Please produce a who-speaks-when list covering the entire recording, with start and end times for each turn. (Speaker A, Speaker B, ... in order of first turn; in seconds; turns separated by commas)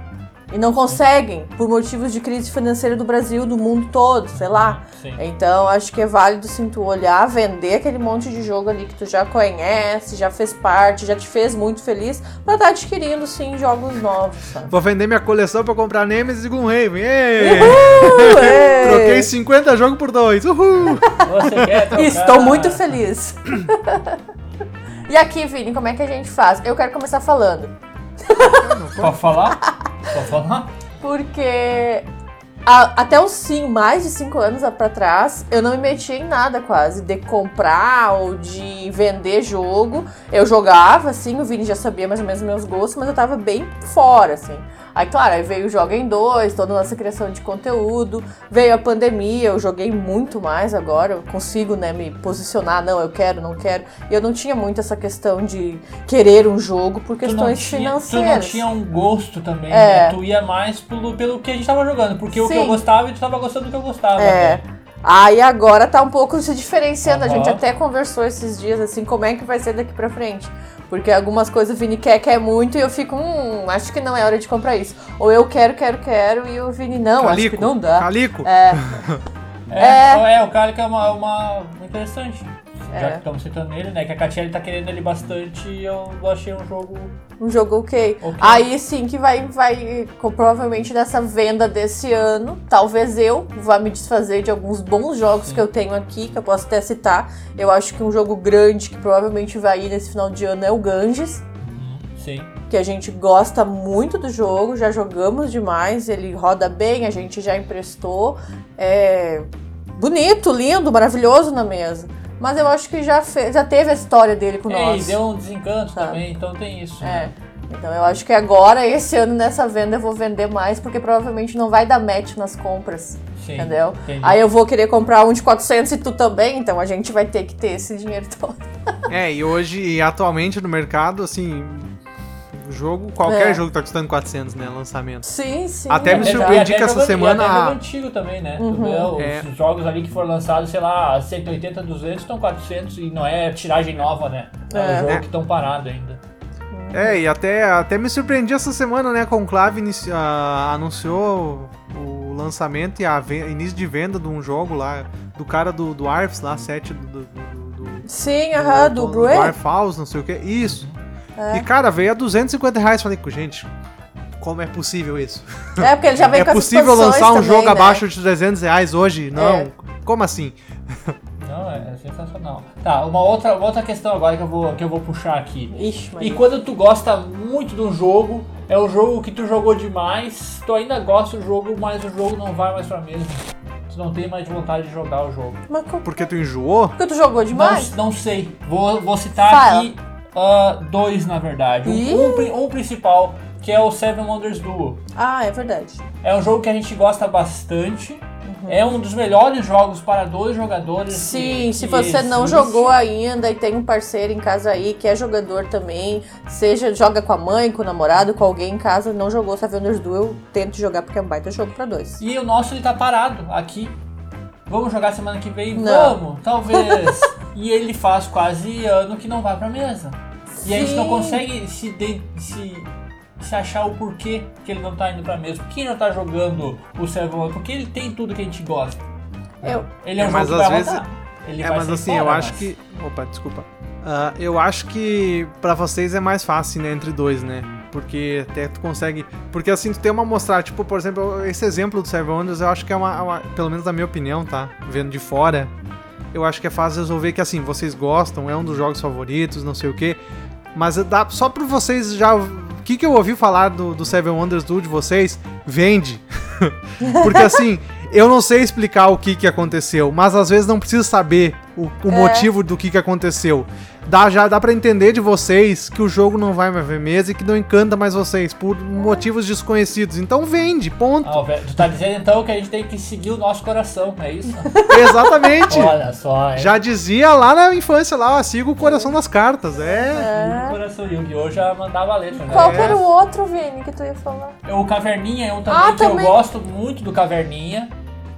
Speaker A: 0.5-14.7, Speaker B: 4.3-5.2, Speaker C: 14.7-21.8, Speaker A: 17.4-19.3, Speaker B: 17.6-18.4, Speaker A: 20.9-21.3, Speaker B: 21.1-23.0, Speaker A: 21.9-24.2, Speaker A: 25.1-28.7, Speaker C: 28.4-29.2, Speaker B: 29.0-30.7, Speaker A: 31.0-32.1, Speaker A: 32.7-58.6, Speaker B: 57.2-64.6, Speaker A: 59.7-60.2, Speaker A: 62.3-62.8, Speaker A: 64.2-79.0, Speaker B: 67.0-67.6, Speaker C: 77.2-79.2, Speaker B: 79.7-87.1, Speaker A: 79.8-80.2, Speaker A: 82.9-83.2, Speaker A: 87.4-101.4, Speaker B: 88.2-88.7, Speaker B: 101.6-102.5, Speaker A: 102.7-115.2, Speaker B: 114.7-117.3, Speaker A: 117.0-128.6, Speaker B: 123.4-124.4, Speaker C: 129.1-132.0, Speaker C: 132.5-135.2, Speaker A: 133.2-133.6, Speaker A: 135.2-136.7, Speaker C: 135.9-137.8, Speaker B: 136.1-146.2, Speaker A: 138.6-139.1, Speaker C: 139.2-139.5, Speaker A: 144.7-145.2, Speaker C: 145.0-145.3, Speaker A: 146.7-147.2, Speaker C: 146.9-160.9, Speaker A: 158.1-159.6, Speaker B: 160.6-161.0, Speaker A: 161.4-161.7, Speaker C: 161.5-163.7, Speaker C: 164.4-171.2, Speaker A: 165.8-168.0, Speaker A: 169.3-169.7, Speaker B: 171.4-185.6, Speaker A: 175.7-176.5, Speaker A: 185.7-186.1, Speaker C: 186.0-187.0, Speaker A: 187.0-187.9, Speaker B: 187.5-195.0, Speaker A: 189.4-189.9, Speaker A: 191.8-192.5, Speaker A: 195.2-196.0, Speaker B: 196.2-202.9, Speaker A: 198.4-198.9, Speaker A: 201.1-212.2, Speaker B: 212.2-214.0, Speaker B: 214.7-229.0, Speaker A: 215.8-216.2, Speaker A: 216.7-217.2, Speaker A: 220.6-221.4, Speaker B: 229.6-232.7, Speaker C: 230.2-231.0, Speaker C: 231.6-245.7, Speaker C: 246.3-250.2, Speaker C: 250.7-271.8, Speaker A: 257.0-257.6, Speaker A: 262.1-262.5, Speaker B: 271.2-274.7, Speaker A: 274.7-275.6, Speaker C: 274.9-276.0, Speaker B: 275.7-276.8, Speaker C: 276.6-280.3, Speaker A: 278.8-279.1, Speaker A: 280.1-280.8, Speaker B: 280.2-283.0, Speaker A: 282.4-284.6, Speaker C: 282.5-283.1, Speaker B: 284.6-287.9, Speaker A: 285.7-286.4